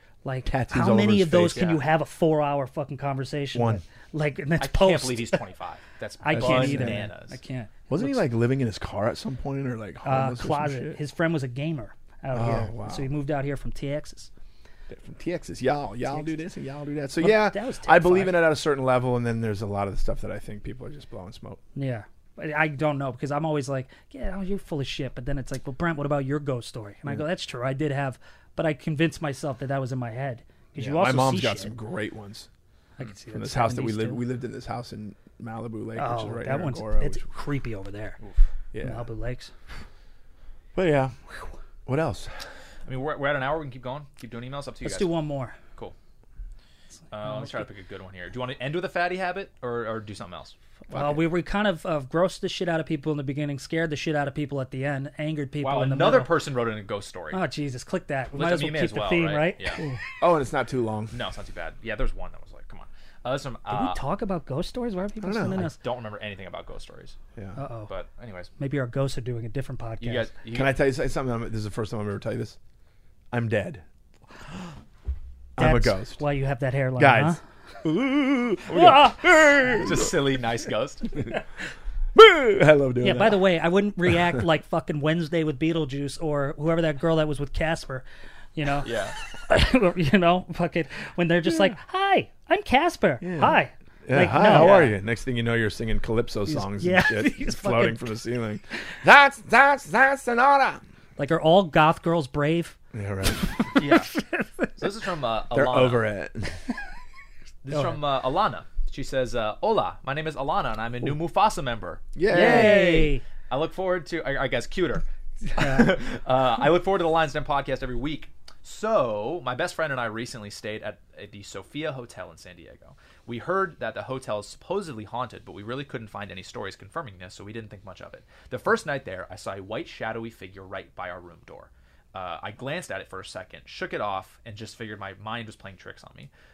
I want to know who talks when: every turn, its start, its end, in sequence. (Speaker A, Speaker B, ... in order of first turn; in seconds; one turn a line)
Speaker A: 0.2-5.4
Speaker B: 0.5-1.7
Speaker C: 1.5-1.8
Speaker B: 3.5-3.8
Speaker C: 4.6-7.4
Speaker A: 6.2-8.2
Speaker B: 6.3-7.1
Speaker B: 7.9-11.0
Speaker A: 10.0-14.3
Speaker B: 12.3-13.1
Speaker B: 14.9-21.6
Speaker A: 17.2-18.5
Speaker A: 21.8-31.8
Speaker B: 30.8-32.5
Speaker A: 33.0-34.2
Speaker B: 33.3-37.2
Speaker A: 36.0-38.2
Speaker B: 38.7-39.1
Speaker A: 38.8-39.5
Speaker B: 40.8-41.1
Speaker B: 41.9-42.3
Speaker C: 42.9-45.1
Speaker A: 44.8-45.6
Speaker C: 47.1-50.5
Speaker A: 47.3-47.6
Speaker A: 50.9-56.3
Speaker B: 50.9-51.3
Speaker C: 55.6-57.4
Speaker A: 57.3-59.9
Speaker C: 58.4-59.8
Speaker B: 59.8-61.2
Speaker C: 61.1-64.0
Speaker A: 63.7-65.8
Speaker B: 65.2-65.7
Speaker C: 65.6-67.2
Speaker A: 67.6-67.9
Speaker C: 67.9-68.5
Speaker A: 68.6-70.3
Speaker C: 70.0-70.7
Speaker B: 70.5-72.6
Speaker B: 73.3-73.8
Speaker B: 75.6-76.2
Speaker A: 75.6-77.4
Speaker B: 77.0-80.2
Speaker A: 78.7-79.8
Speaker C: 79.7-81.4
Speaker B: 82.2-83.5
Speaker A: 83.0-94.9
Speaker C: 88.8-89.2
Speaker B: 93.2-100.8
Speaker C: 94.4-95.0
Speaker A: 96.5-98.2
Speaker A: 101.2-102.8
Speaker B: 102.9-103.5
Speaker C: 103.8-104.1
Speaker A: 103.8-104.7
Speaker C: 104.8-106.1
Speaker B: 105.5-106.6
Speaker C: 107.6-115.0
Speaker B: 112.2-113.0
Speaker A: 112.3-113.2
Speaker A: 115.6-115.9
Speaker C: 115.6-136.3